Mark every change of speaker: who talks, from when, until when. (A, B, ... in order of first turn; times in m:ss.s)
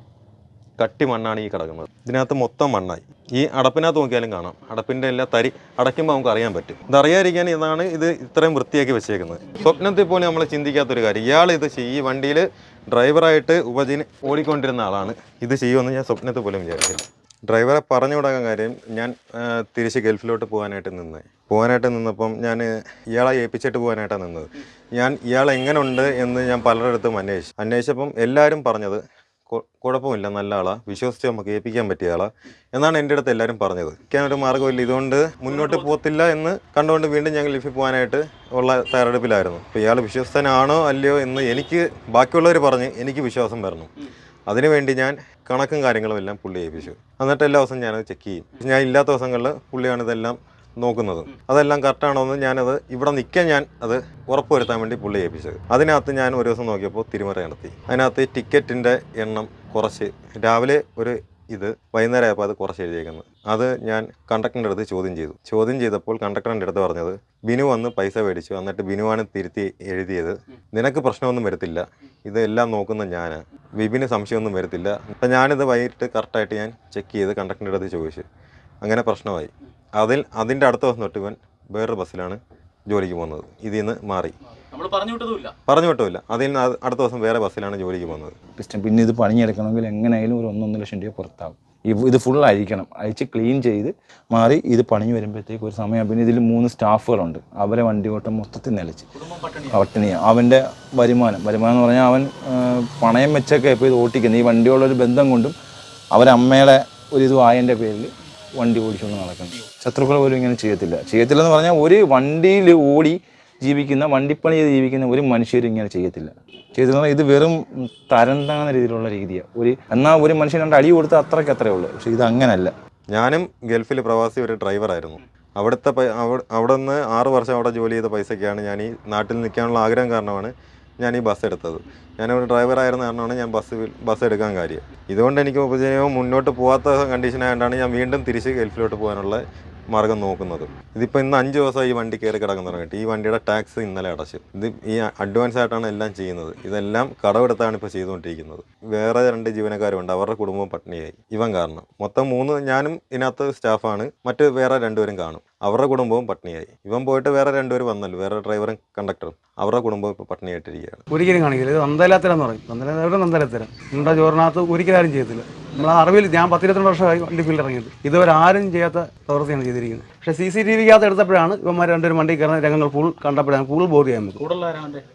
0:00.8-0:43.9 A
0:44.5-1:18.2 A
1:18.8-1:24.3 A
1:24.7-1:25.5 B
1:25.7-1:28.3 A
1:28.6-1:39.1 C
1:39.2-1:39.8 B
1:39.7-1:45.5 C
1:46.1-2:02.7 C
2:03.1-2:41.0 A
2:41.1-2:54.4 D
2:54.4-2:55.0 B